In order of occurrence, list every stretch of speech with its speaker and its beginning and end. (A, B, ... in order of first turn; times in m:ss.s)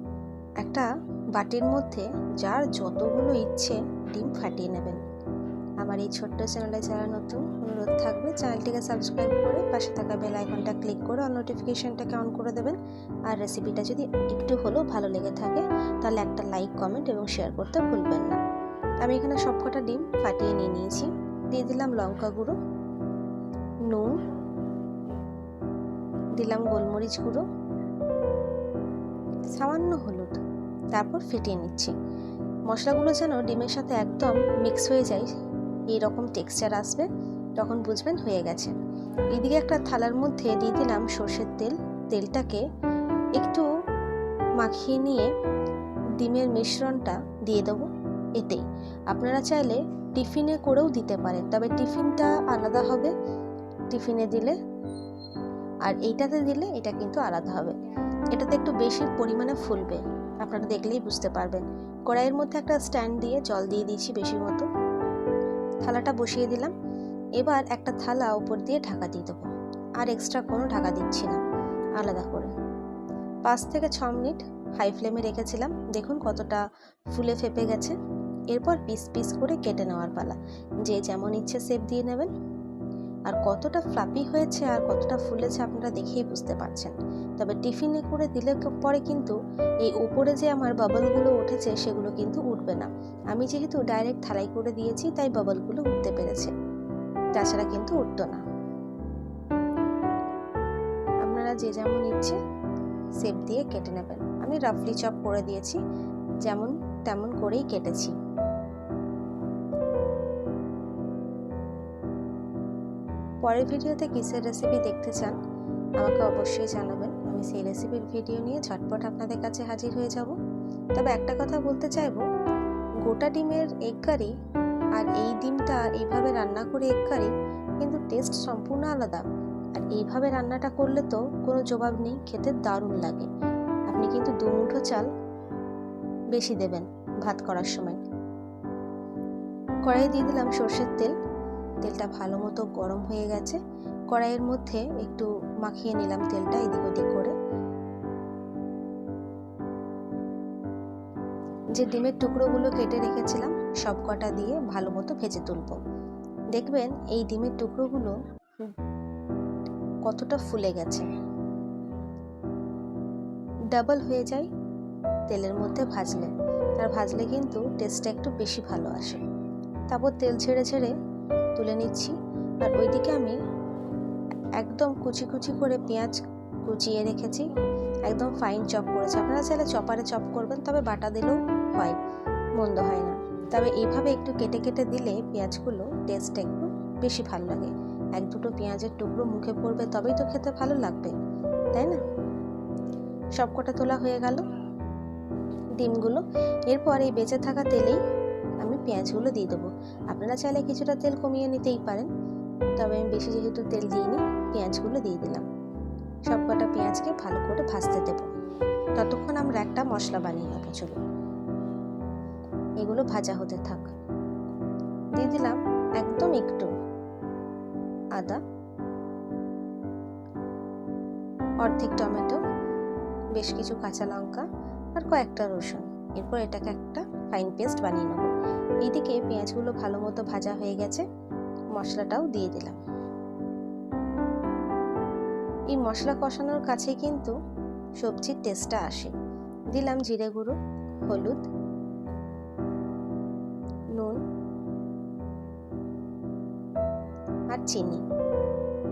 0:00.6-0:05.0 A
0:05.8-0:12.8 A
0:13.3-0:18.4 A
0:19.0-0:22.6 A
0:23.9-0:24.2 A
0:26.4-0:27.4 A
0:29.6-0:30.4 A
0:30.9-0:32.0 A
0:32.7-0:35.3 A
0:35.9-0:37.1 A
0:37.6-0:38.8 A
0:39.3-0:42.6 A
0:43.4-0:43.7 A
0:44.6-0:45.3 A
0:46.2-0:53.1 A
0:53.9-0:54.6 A
0:55.9-0:57.8 A
0:58.4-1:04.7 A
1:05.8-1:06.7 A
1:07.4-1:09.5 A
1:10.0-1:11.4 A
1:12.0-1:12.5 A
1:13.5-1:16.6 A
1:17.2-1:18.0 A
1:18.5-1:22.3 A
1:23.3-1:36.5 A
1:37.4-1:38.4 A
1:41.3-1:42.4 A
1:43.2-1:45.8 A
1:46.4-1:48.2 A
1:53.4-1:55.4 A
1:56.0-2:00.4 A
2:01.0-2:02.2 A
2:03.0-2:04.3 A
2:05.0-2:09.2 A
2:09.8-2:13.3 A
2:13.9-2:15.1 A
2:16.3-2:18.0 A
2:19.9-2:21.2 A
2:21.8-2:23.6 A
2:24.1-2:27.3 A
2:31.8-2:35.8 A
2:36.6-2:38.7 A
2:40.1-2:41.1 A
2:43.7-2:44.5 A
2:45.3-2:49.2 A
2:49.9-2:50.9 A
2:51.6-2:53.4 A
2:54.6-2:57.5 A
2:58.1-3:02.0 A
3:02.6-3:11.2 A
3:13.4-3:14.4 A
3:15.8-3:18.0 A
3:18.6-3:22.1 A
3:22.8-3:25.5 A
3:26.3-3:28.3 A
3:29.0-3:31.0 A
3:32.8-3:33.9 A
3:35.2-3:36.7 A
3:41.6-3:42.4 A
3:43.4-3:48.3 A
3:48.8-3:51.1 A
3:51.8-3:52.8 A
3:55.7-3:57.4 A
3:58.0-3:59.1 A
3:59.7-4:01.4 A
4:07.5-4:08.0 A